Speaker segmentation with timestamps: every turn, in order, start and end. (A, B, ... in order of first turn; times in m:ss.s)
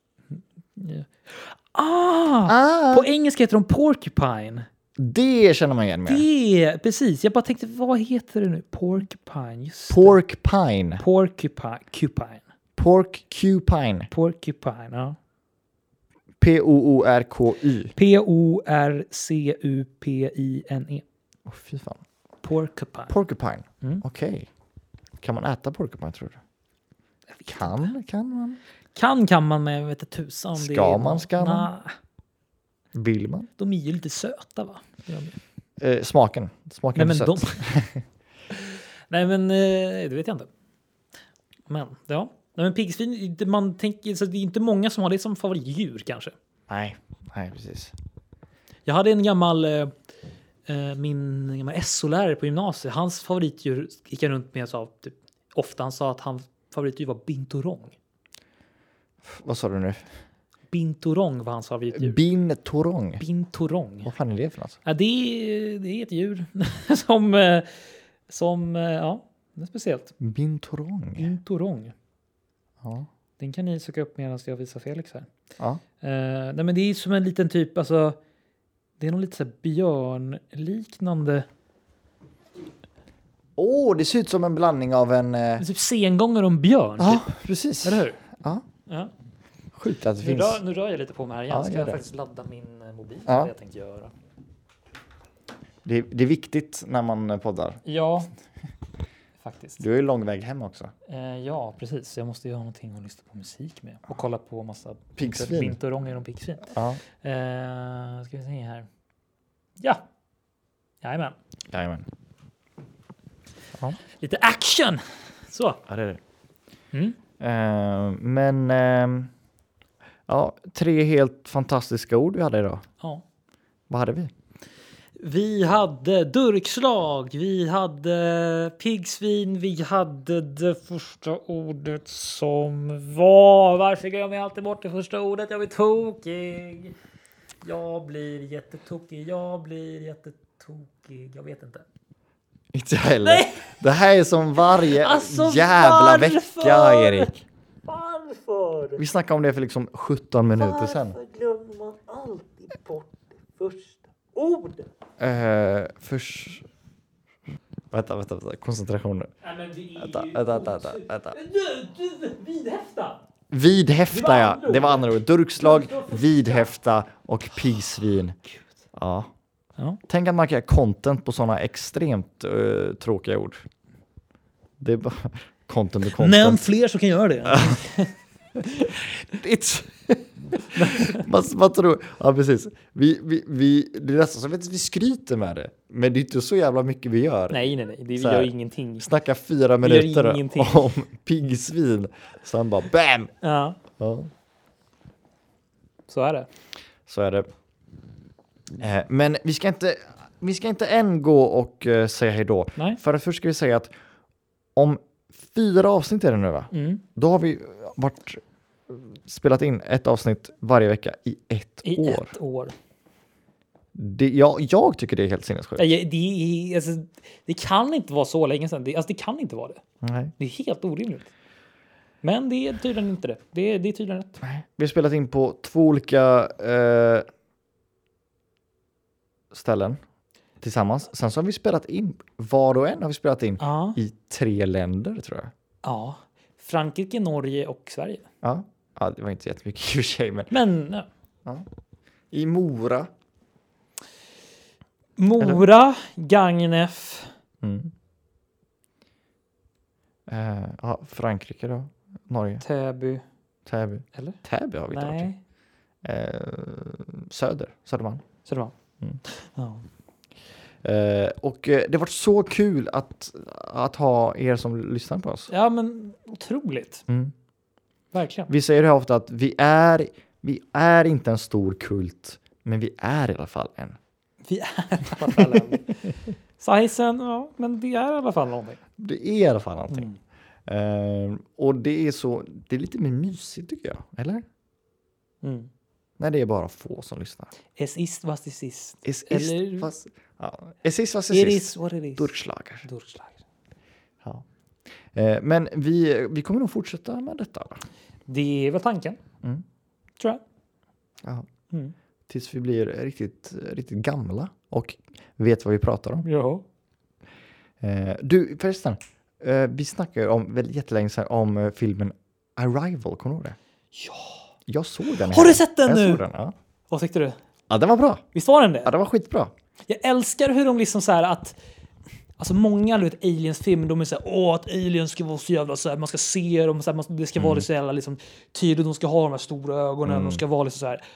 0:00.3-0:04.7 A
0:02.5-0:03.1 B
0:05.0-0:06.2 B
0:06.0-0:10.2 A
0:09.9-0:11.0 B
0:11.0-0:12.4 A
0:12.8-0:14.1 B
0:14.1-0:15.2 A
0:16.4-0:17.9 B
0:18.0-0:21.0 A
0:21.4-0:22.0 B
0:22.4-0:23.1 A
0:23.1-0:24.5 B
0:25.2-0:26.4 B
0:27.3-0:27.9 A
0:27.5-0:28.6 B
0:28.9-0:32.0 A
0:30.6-0:31.7 B
0:32.9-0:33.5 B
0:33.6-0:35.3 A
0:35.8-0:38.0 B
0:36.9-0:37.7 A
0:38.5-0:40.5 A
0:41.7-0:46.3 A
0:46.7-0:47.9 B
0:48.8-0:49.9 A
0:50.6-0:57.9 A
0:59.2-1:00.0 B
1:00.7-1:02.2 A
1:01.9-1:03.2 B
1:03.2-1:04.1 A
1:04.0-1:04.8 B
1:04.8-1:10.1 A
1:10.2-1:11.3 B
1:11.2-1:11.9 A
1:12.8-1:13.1 B
1:13.4-1:15.3 A
1:16.0-1:18.2 A
1:19.0-1:21.4 A
1:23.6-1:25.6 B
1:25.6-1:27.3 A
1:27.0-1:28.6 B
1:27.8-1:28.2 A
1:29.8-1:30.6 B
1:30.2-1:34.1 A
1:31.5-1:32.0 B
1:33.3-1:33.5 B
1:35.8-1:37.8 B
1:37.8-1:38.3 A
1:39.4-1:39.8 A
1:39.8-1:40.9 B
1:41.0-1:46.7 A
1:45.2-1:45.8 B
1:46.7-1:47.0 B
1:47.2-1:48.9 A
1:51.0-1:51.4 A
1:51.7-1:52.1 B
1:54.2-1:55.8 A
1:55.9-1:56.2 B
1:57.4-1:59.3 B
2:00.3-2:02.8 B
2:03.9-2:04.3 B
2:05.2-2:16.9 A
2:17.6-2:21.8 A
2:22.7-2:27.4 B
2:23.2-2:23.8 A
2:24.8-2:27.3 A
2:27.8-2:29.0 A
2:29.0-2:31.2 B
2:30.6-2:34.9 A
2:35.2-2:36.6 B
2:37.9-2:39.3 B
2:39.4-2:43.2 A
2:40.0-2:41.4 B
2:43.5-2:48.4 B
2:44.1-2:46.7 A
2:48.9-2:49.3 B
2:50.1-2:53.6 B
2:54.8-2:56.6 B
2:56.2-2:58.9 A
2:57.4-2:57.8 B
2:58.9-3:13.3 B
3:00.7-3:01.3 A
3:07.5-3:09.1 A
3:09.8-3:10.9 A
3:13.4-3:13.8 A
3:14.0-3:14.3 B
3:16.1-3:16.5 A
3:17.1-3:17.5 B
3:18.8-3:23.9 B
3:24.8-3:32.4 B
3:26.7-3:27.0 A
3:31.8-3:32.7 A
3:33.9-3:35.9 B
3:35.8-3:39.8 A
3:40.0-3:40.3 B
3:40.4-3:41.3 A
3:42.2-3:44.4 A
3:44.4-3:47.2 B
3:49.5-3:50.0 B
3:50.6-3:55.5 B
3:53.6-3:54.0 A
3:55.8-3:58.2 A
3:58.4-4:00.5 B
4:00.5-4:01.1 A
4:02.3-4:03.1 B
4:05.2-4:07.3 A
4:05.4-4:05.6 B
4:07.6-4:07.9 B
4:10.3-4:12.6 B
4:12.6-4:13.2 A
4:13.6-4:15.3 B
4:14.9-4:15.4 A
4:16.0-4:18.2 B
4:18.4-4:18.7 A
4:19.2-4:19.8 A
4:20.8-4:25.5 B
4:25.5-4:27.0 A
4:27.1-4:27.3 B
4:28.1-4:28.5 A
4:28.5-4:34.0 B
4:34.5-4:36.0 A
4:35.2-4:35.7 B
4:36.6-4:38.8 A
4:39.0-4:40.1 B
4:39.9-4:40.2 A
4:40.7-4:44.4 B
4:45.4-4:45.7 A
4:46.2-4:47.5 B
4:47.7-4:49.9 A
4:49.0-4:52.9 B
4:51.3-4:52.3 A
4:52.8-4:53.4 A
4:55.1-4:57.8 B
4:58.3-4:59.2 A
5:02.3-5:06.2 B
5:06.2-5:06.6 A
5:07.8-5:13.6 B
5:13.9-5:14.5 A
5:14.7-5:16.5 B
5:15.2-5:16.2 A
5:16.9-5:17.4 A
5:17.7-5:18.2 B
5:18.3-5:18.9 A
5:18.8-5:19.5 B
5:19.9-5:21.6 A
5:22.4-5:31.0 A
5:27.4-5:27.6 B
5:30.0-5:30.4 B